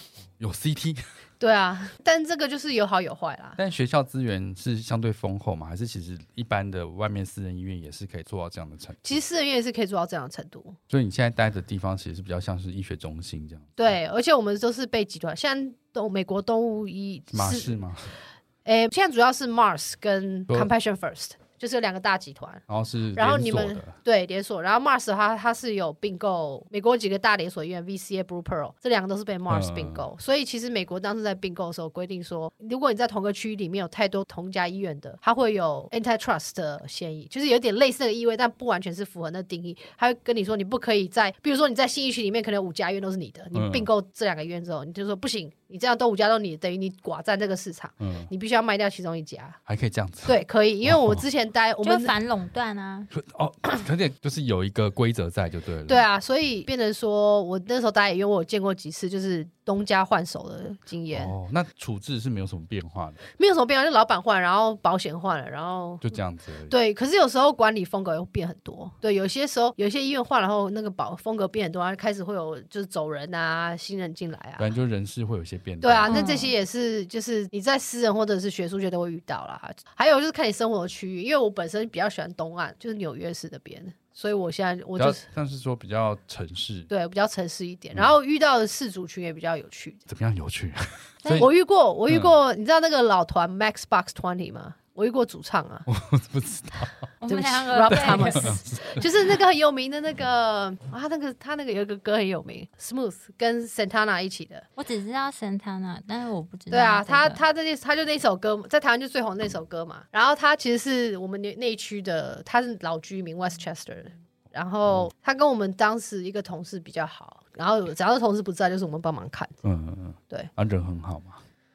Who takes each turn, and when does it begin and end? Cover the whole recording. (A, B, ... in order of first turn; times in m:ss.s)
0:00.4-0:01.0 A
0:01.4-0:03.6 B
0:03.6-0:09.2 A
0:09.0-0:10.8 B
0:10.9-0:14.0 A
0:13.8-0:17.8 B
0:17.3-0:18.1 A
0:18.6-0:22.6 B
0:22.7-0:23.9 A
0:23.2-0:49.6 B
0:29.5-0:30.1 A
0:43.5-0:43.9 A
0:48.0-0:48.3 A
0:49.7-0:51.2 A
0:50.2-0:52.1 B
0:51.8-0:53.1 C
0:53.1-0:56.0 A
0:55.9-1:01.3 B
1:01.1-1:03.2 A
1:03.3-1:06.0 B
1:06.0-1:06.7 A
1:06.7-1:14.7 B
1:14.6-1:16.1 A
1:15.8-1:25.2 B
1:16.0-1:16.5 C
1:25.0-1:26.9 A
1:26.9-1:30.0 B
1:30.1-1:31.5 A
1:31.2-1:31.5 C
1:31.3-1:35.9 B
1:32.1-1:32.3 A
1:35.9-1:36.9 A
1:37.2-1:38.6 C
1:37.3-1:44.6 B
1:37.9-1:39.1 A
1:44.8-1:47.4 C
1:46.7-1:59.6 B
1:59.6-2:01.4 A